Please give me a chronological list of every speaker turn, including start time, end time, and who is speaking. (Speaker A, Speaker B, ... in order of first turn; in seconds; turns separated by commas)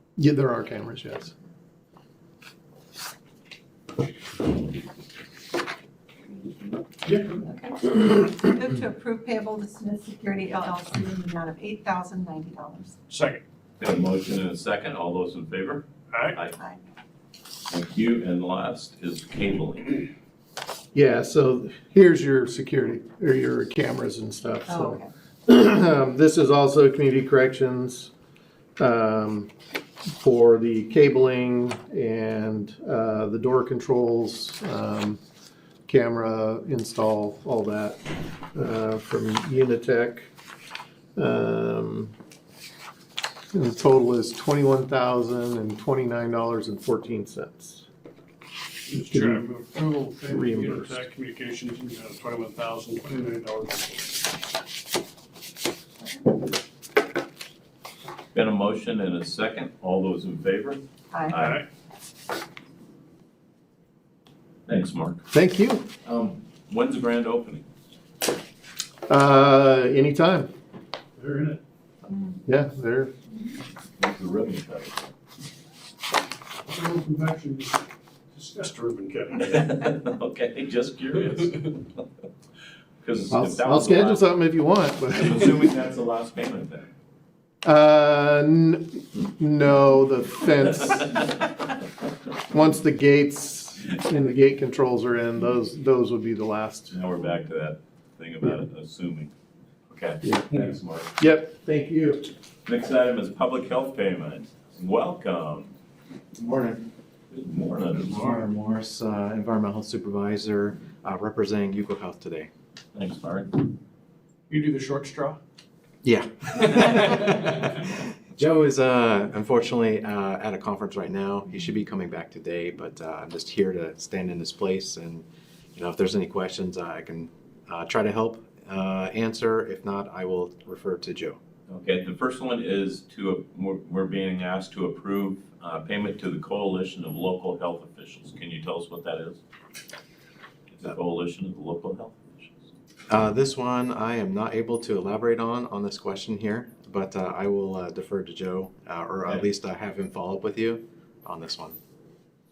Speaker A: 0.2-1.3, Speaker B: 6.3-6.7, Speaker C: 7.0-7.3, Speaker B: 7.3-13.0, Speaker C: 13.1-13.4, Speaker D: 13.8-16.5, Speaker C: 16.1-16.4, Speaker B: 16.6-16.8, Speaker D: 17.7-20.1, Speaker A: 20.9-28.1, Speaker B: 24.7-25.1, Speaker A: 28.8-29.5, Speaker A: 30.1-35.2, Speaker A: 35.9-40.3, Speaker A: 41.1-42.1, Speaker A: 43.5-47.9, Speaker C: 48.9-54.3, Speaker A: 49.1-49.5, Speaker A: 50.2-51.0, Speaker D: 58.3-61.6, Speaker B: 61.1-61.4, Speaker C: 61.4-61.6, Speaker D: 64.7-65.2, Speaker A: 65.3-65.9, Speaker D: 66.0-67.6, Speaker A: 69.1-70.5, Speaker C: 71.2-71.6, Speaker B: 72.1-72.4, Speaker A: 72.5-73.1, Speaker D: 74.0-75.1, Speaker C: 76.6-79.7, Speaker D: 79.5-82.0, Speaker D: 83.0-84.2, Speaker A: 83.3-85.5, Speaker D: 85.1-86.9, Speaker A: 87.6-91.3, Speaker A: 92.5-96.9, Speaker D: 96.9-99.3, Speaker D: 99.9-101.2, Speaker A: 100.2-100.6, Speaker A: 101.2-102.3, Speaker D: 102.7-105.7, Speaker E: 106.3-106.8, Speaker D: 107.3-108.2, Speaker C: 108.1-108.4, Speaker E: 108.1-112.5, Speaker D: 112.9-113.7, Speaker C: 114.5-115.4, Speaker E: 116.0-117.2, Speaker C: 116.8-117.4, Speaker E: 117.8-131.4, Speaker D: 131.7-139.4, Speaker D: 140.7-142.7, Speaker E: 143.1-151.8